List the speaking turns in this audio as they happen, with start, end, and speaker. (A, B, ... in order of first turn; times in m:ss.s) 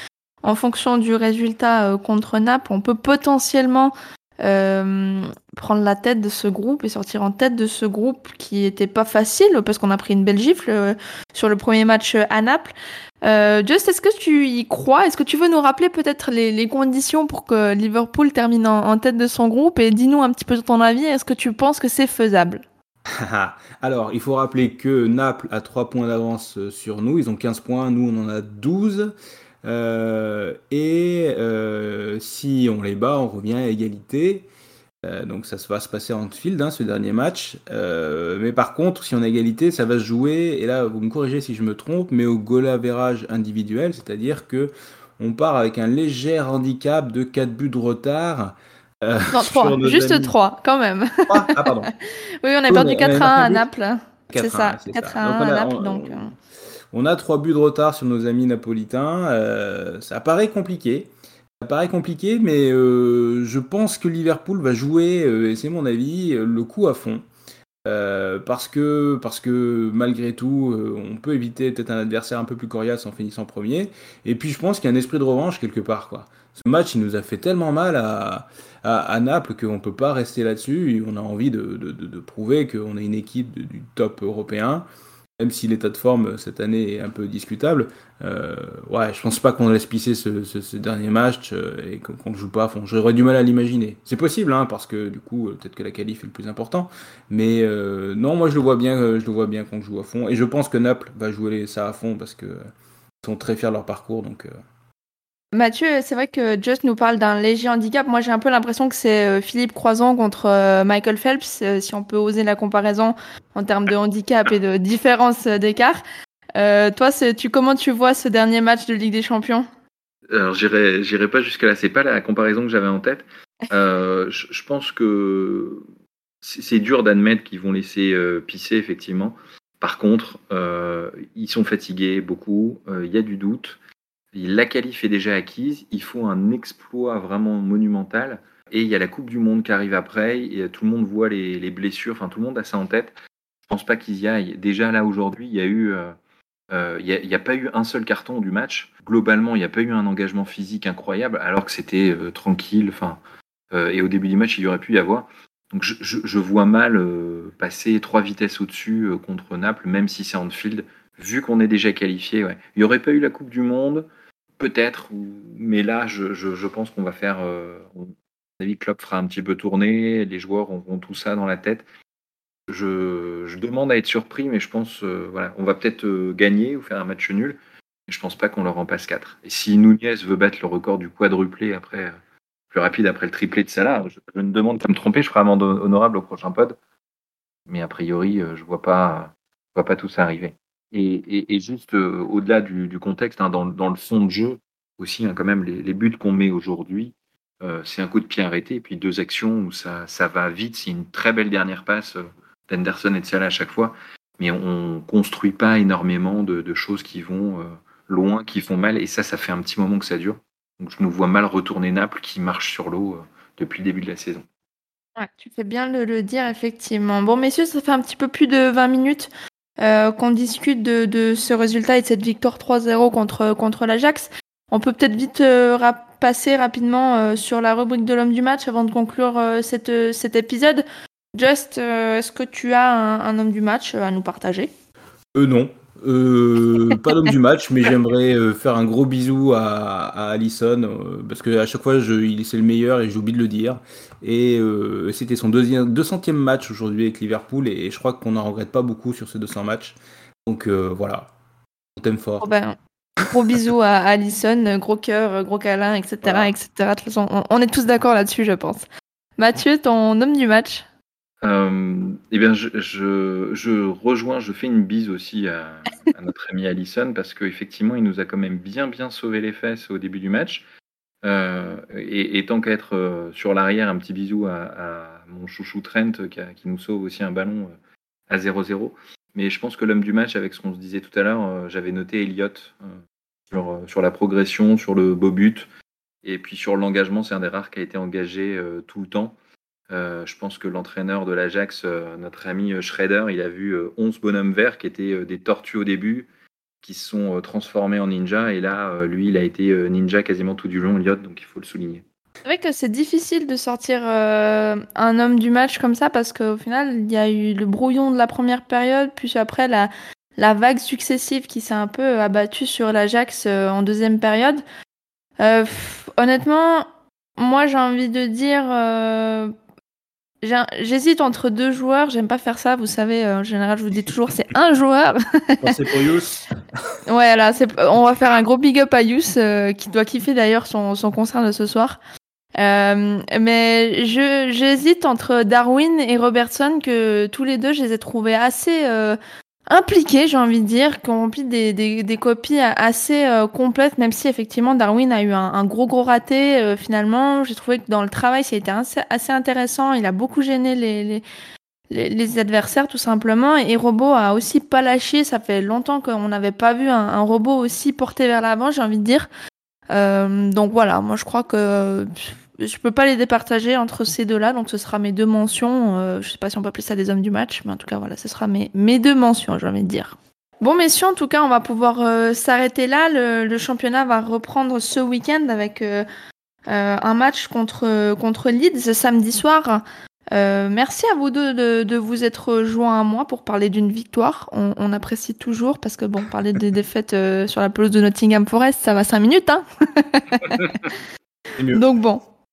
0:00.4-0:22.6 A
0:23.1-0:29.1 B
0:29.6-0:34.5 B
0:35.0-0:50.3 B
0:49.3-0:51.9 A
0:51.3-0:51.9 B
0:52.4-0:56.3 A
0:52.7-0:53.7 B
0:54.3-0:56.2 B
0:56.9-1:01.1 B
1:01.6-1:07.2 B
1:07.9-1:24.8 B
1:25.4-1:42.7 B
1:43.2-1:44.5 B
1:45.5-1:56.0 A
1:56.6-1:59.7 A
2:00.3-2:05.9 C
2:06.4-2:13.8 C
2:14.3-2:23.1 C
2:23.7-2:26.2 C
2:26.7-2:33.2 C
2:33.7-2:44.1 C
2:44.6-2:51.8 C
2:52.7-3:02.2 C
3:02.7-3:06.8 C
3:07.7-3:34.4 C
3:35.2-3:54.7 A
3:55.3-4:11.3 B
4:12.0-4:12.5 B
4:12.4-4:12.8 A
4:13.3-4:18.9 A
4:16.2-4:16.5 B
4:19.4-4:20.8 A
4:21.4-4:30.6 C
4:31.2-4:37.8 C
4:38.3-4:43.0 C
4:43.5-4:45.7 C
4:46.2-4:49.4 C
4:49.9-4:56.3 C
4:56.8-5:02.0 C
5:02.5-5:14.6 A
5:15.4-5:16.9 A
5:17.4-5:19.5 A
5:20.4-5:25.7 A
5:25.6-5:26.3 B
5:27.1-5:32.0 A
5:32.6-5:51.2 A
5:51.9-5:59.3 A
5:59.9-6:16.1 A
6:16.7-6:30.9 A
6:31.6-6:31.9 B
6:31.7-6:32.3 A